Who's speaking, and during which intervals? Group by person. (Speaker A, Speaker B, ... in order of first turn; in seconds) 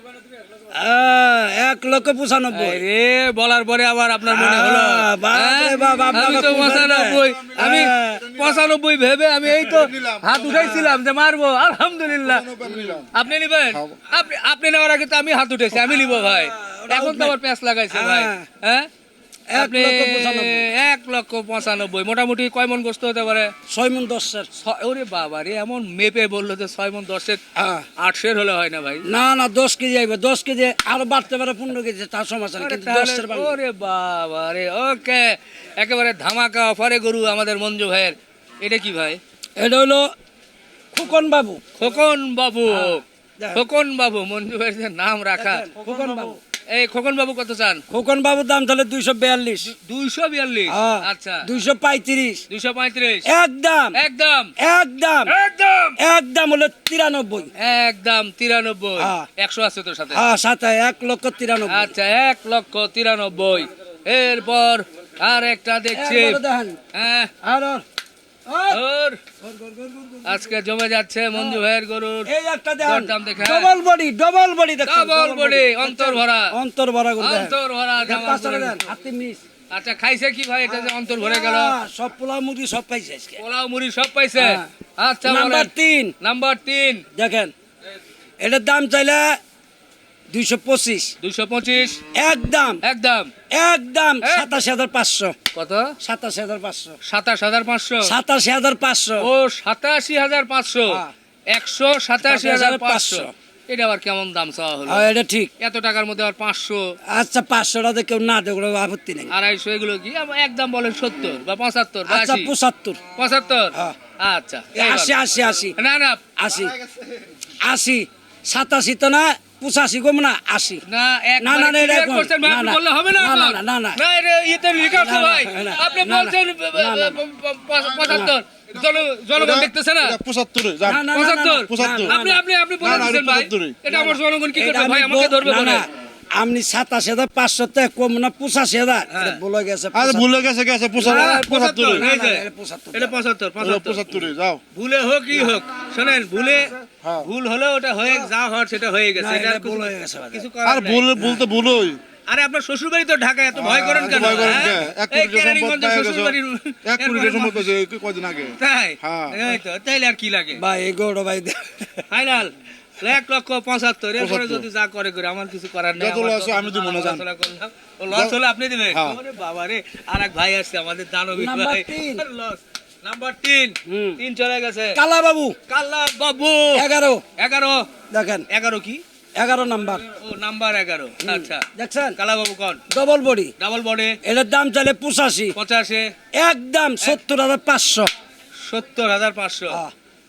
Speaker A: 0.7-2.8, 4.2-8.3, 12.6-12.9, 15.7-17.3, 17.9-18.4, 19.5-20.7, 23.7-24.5, 27.6-27.8, 29.1-33.6, 39.6-40.1, 40.9-41.6, 42.7-43.6, 45.3-46.4, 47.9-49.7, 50.7-52.4, 53.3-54.0, 54.6-55.3, 56.0-57.5, 59.0-59.2, 60.1-61.9, 65.9-66.8, 67.4-67.8, 68.5-68.8, 69.4-70.5, 71.3-71.6, 72.3-79.4, 80.7-83.4, 84.3-84.7, 85.2-86.1, 87.1-87.5, 88.4-89.4, 90.3-91.1, 92.1-92.8, 93.5-95.3, 96.0-97.0, 98.0-99.3, 102.2-103.3, 104.9-105.5, 107.1-109.3, 112.1-113.0, 114.8-115.7, 116.3-116.7, 117.6-120.8, 121.4-124.0, 124.8-127.2, 128.0-128.3, 130.8-133.1, 133.9-140.4, 140.9-143.1, 149.2-150.5, 151.2-151.4, 153.9-154.7, 160.6-162.0, 171.3-172.2, 173.9-174.2, 174.9-175.5, 176.7-177.2, 178.1-178.4, 179.3-180.0, 181.2-182.2, 182.9-183.5, 184.2-185.5, 186.3-188.1
Speaker B: 2.5-12.6, 13.1-18.9, 19.5-23.5, 24.6-27.4, 28.0-29.0, 32.6-39.2, 41.8-43.0, 43.5-47.8, 49.6-51.5, 52.5-53.3, 54.0-54.5, 55.3-56.0, 57.6-60.2, 61.7-66.4, 66.9-67.3, 68.7-69.2, 70.2-72.3, 72.8-73.7, 74.8-76.5, 77.2-78.8, 79.7-81.8, 83.4-87.0, 91.2-92.0, 92.8-93.3, 94.2-94.5, 95.5-95.9, 97.1-98.1, 99.2-105.0, 105.6-106.9, 109.3-112.5, 113.2-115.2, 115.8-116.2, 120.9-130.2, 131.1-135.8, 139.1-139.4, 141.0-144.2, 144.7-151.1, 152.3-157.7, 158.6-160.6, 162.1-175.0, 175.7-176.8, 177.4-177.9, 178.5-179.0, 180.1-181.7, 182.2-182.8, 183.6-184.2, 185.6-186.1, 188.7-189.8
Speaker C: 9.6-10.9, 12.2-13.1, 13.7-14.0, 129.3-131.1, 131.7-132.1, 132.8-133.8, 139.9-142.0, 143.6-144.6, 147.0-147.3, 150.6-152.0, 153.6-159.4, 164.2-164.6, 165.9-167.2, 168.9-169.2